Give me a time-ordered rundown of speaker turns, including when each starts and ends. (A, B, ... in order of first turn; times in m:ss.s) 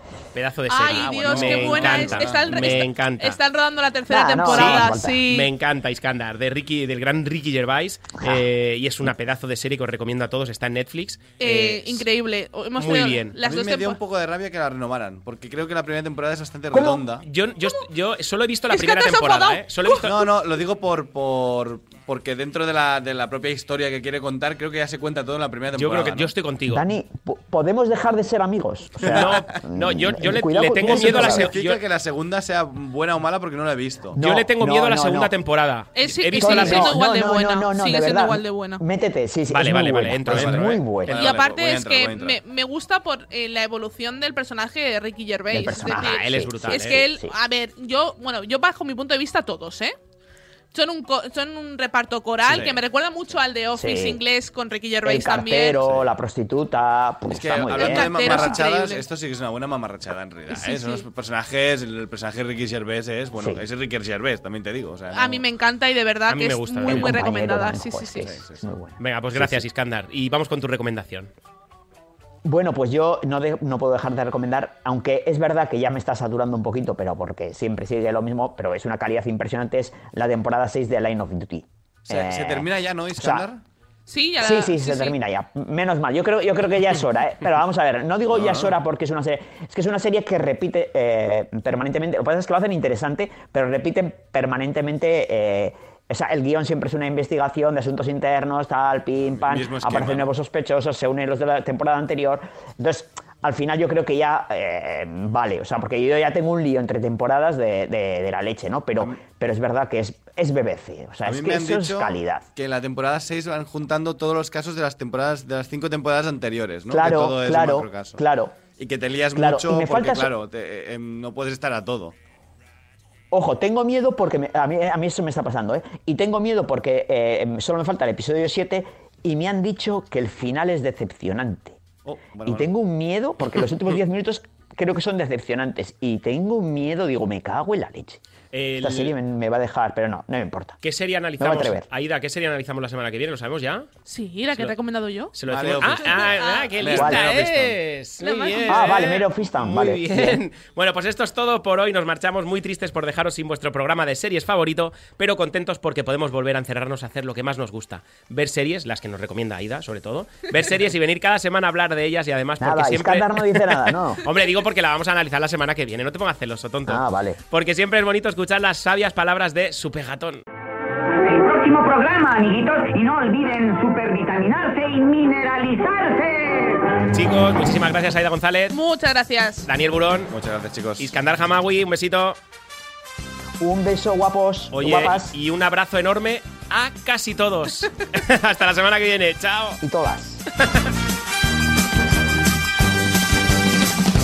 0:00.3-0:03.4 A
0:00.7-0:05.5 B
0:01.0-0:02.8 C
0:04.1-0:05.2 D
0:04.4-0:12.0 A
0:08.2-0:08.4 D
0:11.4-0:14.0 B
0:12.8-0:13.4 A
0:13.4-0:17.2 C
0:16.7-0:17.0 D
0:17.2-0:20.2 A
0:18.7-0:20.0 B
0:20.0-0:26.3 C
0:25.7-0:26.8 A
0:26.7-0:31.5 D
0:29.0-0:29.4 C
0:29.0-0:31.8 A
0:30.8-0:34.2 C
0:34.1-0:35.3 D
0:34.2-0:37.0 A
0:35.9-0:38.8 B
0:36.4-0:41.3 D
0:39.5-0:41.2 A
0:40.2-0:42.4 C
0:41.1-0:50.0 B
0:45.5-0:47.3 D
0:45.9-0:47.1 A
0:50.7-0:55.8 B
0:52.4-0:52.8 C
0:53.7-0:54.2 D
0:55.0-0:58.6 D
0:57.3-1:05.4 C
0:57.7-0:59.0 B
1:00.5-1:01.0 B
1:03.4-1:03.6 D
1:05.1-1:08.3 B
1:06.3-1:07.2 A
1:06.8-1:09.6 D
1:08.2-1:08.7 C
1:09.0-1:11.3 A
1:12.4-1:23.4 D
1:22.1-1:23.6 C
1:24.1-1:25.2 B
1:24.4-1:52.5 D
1:28.3-1:28.7 C
1:39.3-1:40.3 C
1:51.2-1:58.2 C
1:56.9-1:58.6 D
1:58.8-2:02.1 C
1:59.3-2:00.3 D
2:03.3-2:11.8 D
2:12.0-2:12.7 C
2:12.4-2:18.2 D
2:18.5-2:19.1 A
2:18.8-2:20.8 D
2:20.8-2:23.9 A
2:21.4-2:21.8 D
2:24.0-2:25.3 B
2:25.3-2:50.4 A
2:25.4-2:27.8 C
2:26.0-2:26.7 B
2:26.9-2:27.2 D
2:28.2-2:28.9 B
2:28.7-2:30.4 D
2:42.6-2:44.2 D
2:46.8-2:47.4 D
2:51.2-2:56.8 E
2:57.1-2:58.8 A
2:58.7-2:59.7 B
2:59.6-3:00.3 A
3:00.3-3:01.1 C
3:01.0-3:02.4 A
3:03.6-3:05.3 D
3:04.7-3:09.8 A
3:09.8-3:10.4 D
3:10.6-3:10.9 A